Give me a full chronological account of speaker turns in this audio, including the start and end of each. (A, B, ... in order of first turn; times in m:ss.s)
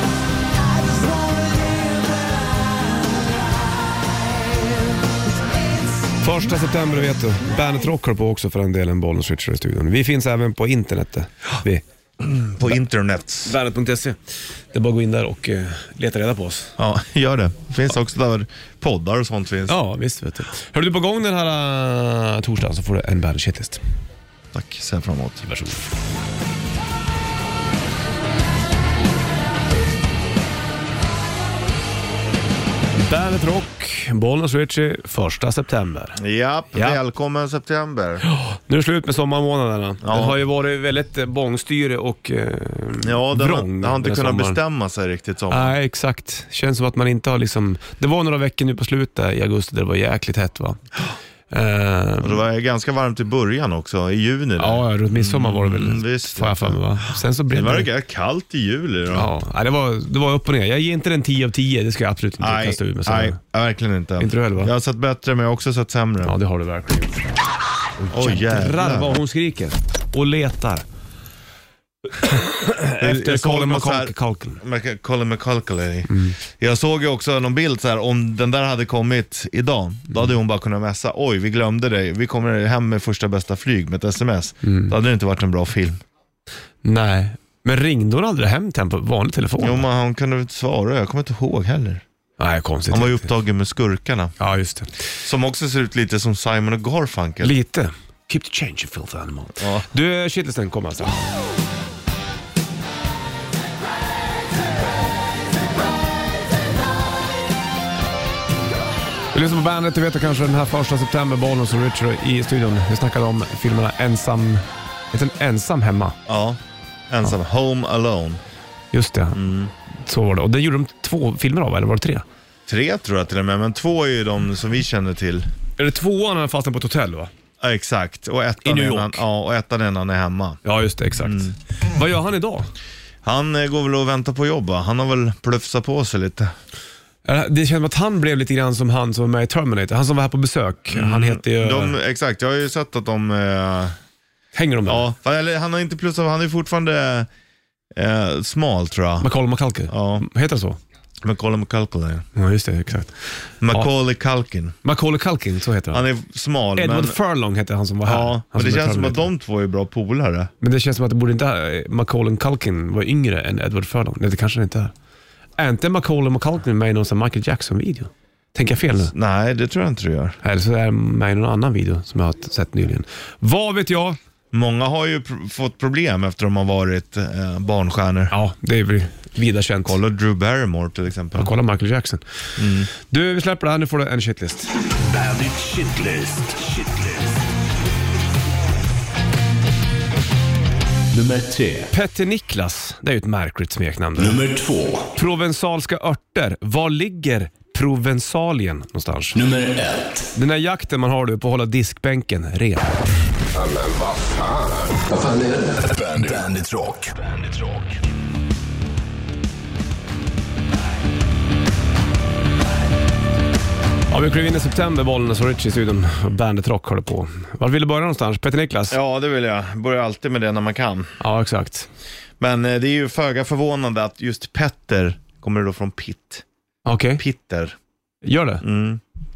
0:06.2-0:11.8 A
0:12.2-0:13.6 B
0:13.4-0:16.8 A
0:16.8-0:19.8 B
0:19.7-0:23.8 A
0:24.5-0:25.5 B
0:25.5-0:25.8 A
0:33.0-0:36.2 A
0:36.2-0:38.2 B
0:36.7-0:37.0 A
0:38.2-0:44.6 A
0:40.0-0:40.4 B
0:43.0-0:45.7 B
0:45.5-0:50.8 A
0:51.5-0:52.4 A
0:52.2-0:56.8 B
0:54.6-0:57.9 A
0:57.5-0:59.3 B
0:59.1-1:03.4 A
1:02.4-1:06.4 B
1:04.2-1:04.7 A
1:06.2-1:10.8 A
1:08.1-1:09.2 B
1:12.2-1:14.6 A
1:13.0-1:26.0 B
1:16.1-1:16.4 A
1:24.6-1:24.9 A
1:26.8-1:29.9 A
1:29.6-1:32.0 B
1:32.4-1:33.3 A
1:32.9-1:34.4 B
1:34.4-1:34.9 A
1:35.2-1:37.5 B
1:37.4-1:41.4 A
1:39.6-1:39.9 B
1:49.3-1:56.2 A
1:56.3-1:58.4 B
1:58.9-1:59.4 A
1:59.3-1:59.7 B
2:00.0-2:02.2 A
2:02.7-2:05.5 B
2:05.8-2:07.3 A
2:07.6-2:10.6 B
2:08.6-2:09.2 A
2:10.6-2:12.7 A
2:11.2-2:11.5 B
2:13.2-2:16.5 B
2:17.3-2:22.0 A
2:20.9-2:24.0 B
2:24.5-2:25.1 A
2:24.9-2:27.3 B
2:28.0-2:29.3 B
2:29.2-2:30.8 A
2:29.9-2:30.3 B
2:31.2-2:32.3 B
2:32.4-2:33.9 A
2:33.6-2:34.8 B
2:34.8-2:36.0 A
2:35.9-2:37.2 B
2:36.8-2:39.3 A
2:38.0-2:40.5 B
2:40.6-2:44.9 A
2:45.6-2:49.1 A
2:49.1-2:50.4 B
2:50.4-2:54.2 A
2:54.5-2:58.4 B
2:58.3-3:00.0 A
2:59.8-3:01.5 B
3:01.4-3:04.7 A
3:02.6-3:02.9 B
3:04.9-3:07.4 C
3:11.1-3:11.9 C
3:11.9-3:14.4 A
3:14.2-3:15.1 C
3:15.2-3:19.4 A
3:19.4-3:20.3 C
3:20.3-3:23.0 A
3:23.6-3:28.0 C
3:34.1-3:39.0 A
3:38.9-3:41.2 B
3:41.2-3:41.9 A
3:42.4-3:46.4 B
3:46.9-3:47.2 A
3:47.2-3:47.8 B
3:48.2-3:48.6 A
3:48.6-3:49.0 B